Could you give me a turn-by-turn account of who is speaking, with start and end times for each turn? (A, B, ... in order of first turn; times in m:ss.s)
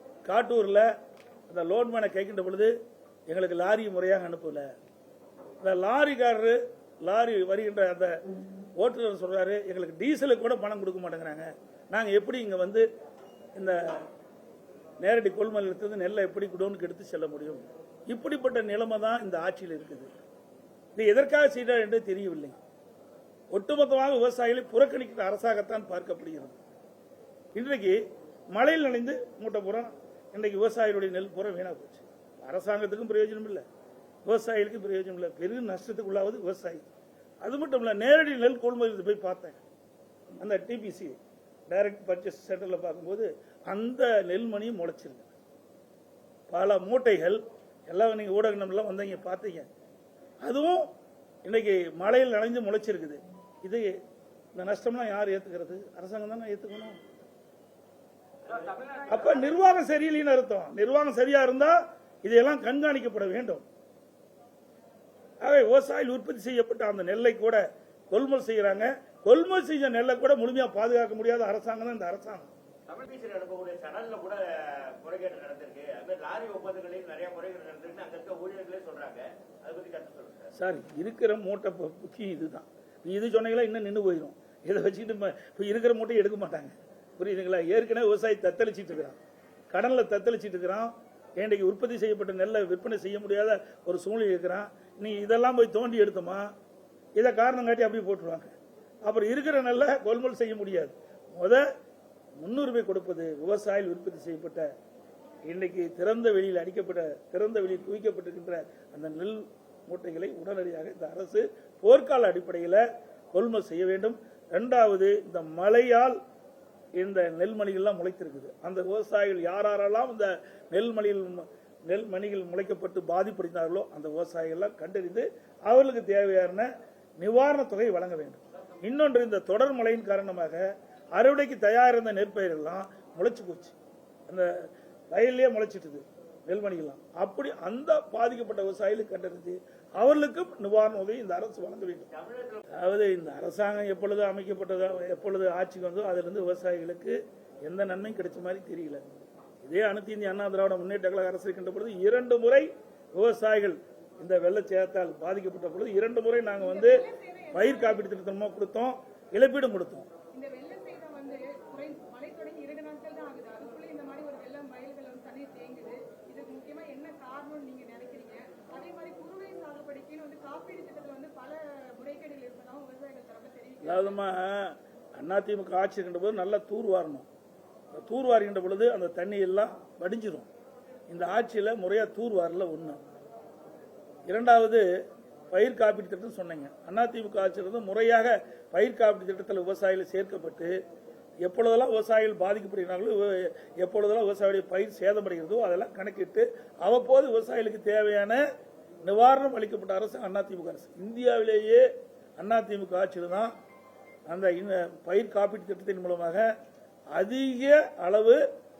0:00.2-0:00.9 A
0:01.5-0:02.7 A
0:03.3-0:04.7 A
0:05.6-0:08.1 A
0:08.8-0:12.9 A
0:13.6-0:14.0 A
0:15.0-0:20.1 A
0:21.0-0:22.6 A
0:23.5-0:26.6 A
0:27.6-0:28.0 A
0:28.5-0:33.6 A
0:34.2-0:36.8 A
0:37.4-0:39.6 A
0:40.4-0:45.3 A
0:46.5-0:49.7 A
0:50.4-0:50.9 A
0:51.4-0:54.0 A
0:54.5-0:57.0 A
0:58.5-0:58.9 B
0:59.0-1:03.6 A
1:05.4-1:12.5 A
1:12.9-1:20.5 B
1:20.5-1:29.2 A
1:29.7-1:36.5 A
1:37.2-1:38.5 A
1:39.1-1:41.6 A
1:42.4-1:44.7 A
1:45.5-1:52.8 A
1:53.3-1:56.2 A
1:57.0-2:13.8 A
2:15.1-2:22.1 A
2:22.1-2:22.6 B
2:22.7-2:29.0 A
2:29.6-2:37.0 A
2:36.6-2:38.0 C
2:37.5-2:40.1 A
2:40.3-2:54.2 C
2:53.8-2:57.3 A
2:57.9-3:00.5 A
3:01.1-3:03.0 A
3:04.3-3:04.8 A
3:05.5-3:10.7 A
3:11.4-3:18.4 A
3:19.0-3:21.8 A
3:22.4-3:23.5 A
3:24.3-3:26.5 A
3:27.2-3:28.4 A